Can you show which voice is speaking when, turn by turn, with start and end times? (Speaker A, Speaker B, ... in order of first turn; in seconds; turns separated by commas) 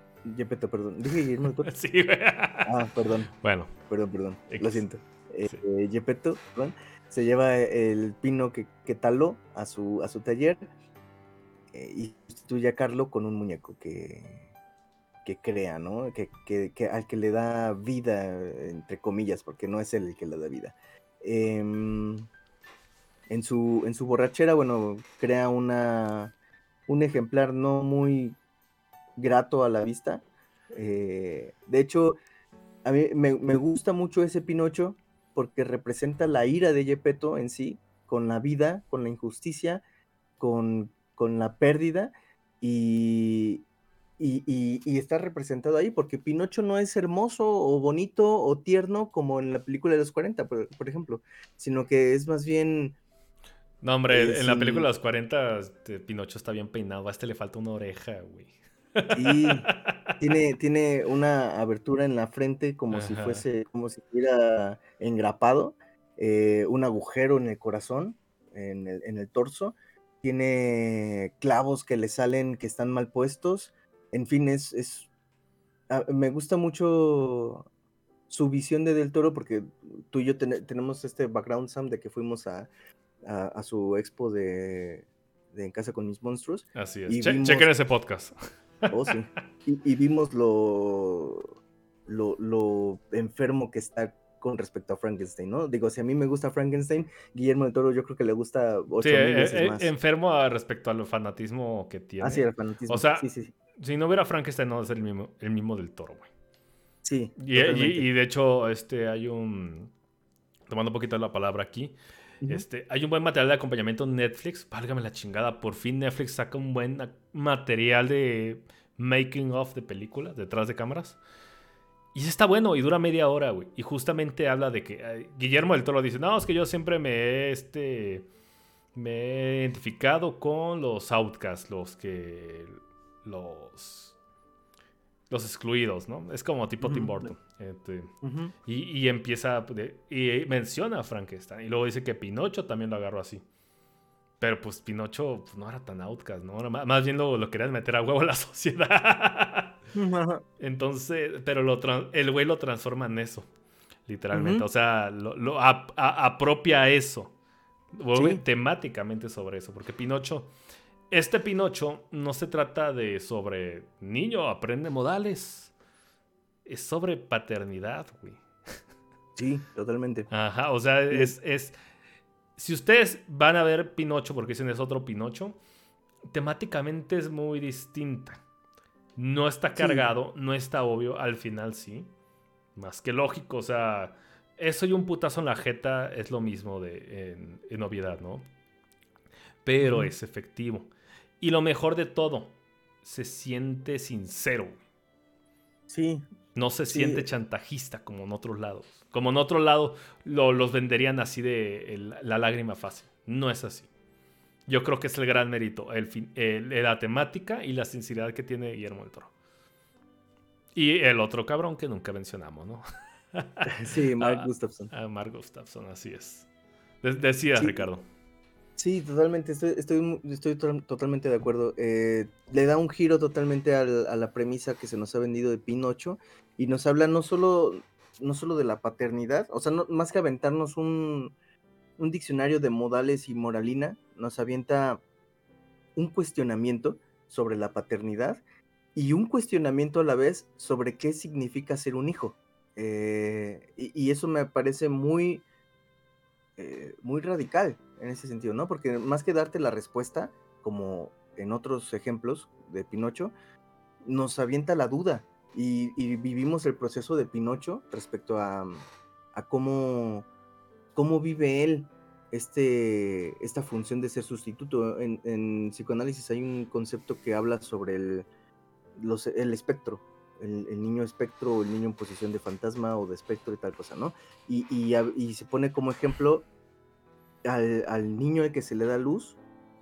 Speaker A: 0.2-1.7, Speaker B: 1.6-2.7, Speaker A: 2.6-3.3, Speaker B: 3.4-3.7, Speaker A: 3.9-10.6, Speaker B: 4.5-4.9, Speaker A: 11.7-14.5, Speaker A: 15.2-22.3, Speaker A: 23.3-26.3, Speaker A: 26.9-28.4, Speaker A: 29.2-32.2, Speaker A: 32.9-39.8, Speaker A: 40.4-43.6, Speaker A: 44.2-53.0, Speaker B: 53.8-60.2, Speaker A: 54.1-54.9, Speaker A: 59.1-59.7, Speaker A: 60.2-75.1, Speaker B: 62.9-63.4, Speaker A: 75.9-77.7, Speaker A: 78.3-82.7, Speaker A: 83.2-87.7, Speaker B: 86.8-88.9, Speaker A: 88.9-91.5, Speaker A: 92.1-99.9, Speaker B: 99.0-106.3, Speaker A: 102.2-103.5, Speaker A: 107.0-108.1, Speaker B: 107.4-109.9, Speaker B: 110.7-121.2, Speaker B: 122.1-128.3, Speaker B: 128.9-134.2, Speaker B: 135.3-138.1, Speaker A: 136.8-137.3, Speaker A: 138.2-138.5, Speaker B: 138.6-143.4, Speaker B: 144.4-149.8, Speaker A: 149.9-150.4, Speaker B: 150.6-153.5, Speaker B: 154.1-157.3, Speaker A: 154.3-154.7, Speaker B: 157.9-160.5, Speaker A: 158.2-158.4, Speaker B: 161.1-165.7, Speaker B: 166.7-168.8, Speaker A: 169.4-170.3, Speaker B: 170.3-171.8, Speaker B: 172.6-175.6, Speaker B: 176.3-178.4, Speaker B: 179.2-182.1, Speaker A: 179.8-180.1, Speaker B: 182.8-188.5, Speaker B: 189.7-194.8, Speaker A: 189.8-190.1, Speaker A: 195.9-196.2, Speaker B: 196.6-203.9, Speaker A: 196.9-197.2, Speaker B: 204.7-209.3, Speaker B: 210.8-216.5, Speaker A: 213.7-214.9, Speaker B: 217.0-218.1, Speaker A: 217.6-217.9, Speaker A: 218.8-231.3, Speaker A: 232.0-235.0, Speaker A: 236.0-238.4, Speaker A: 238.9-245.4, Speaker A: 246.6-253.3, Speaker A: 254.0-260.3, Speaker A: 260.9-268.3, Speaker A: 269.0-276.5, Speaker A: 277.4-279.4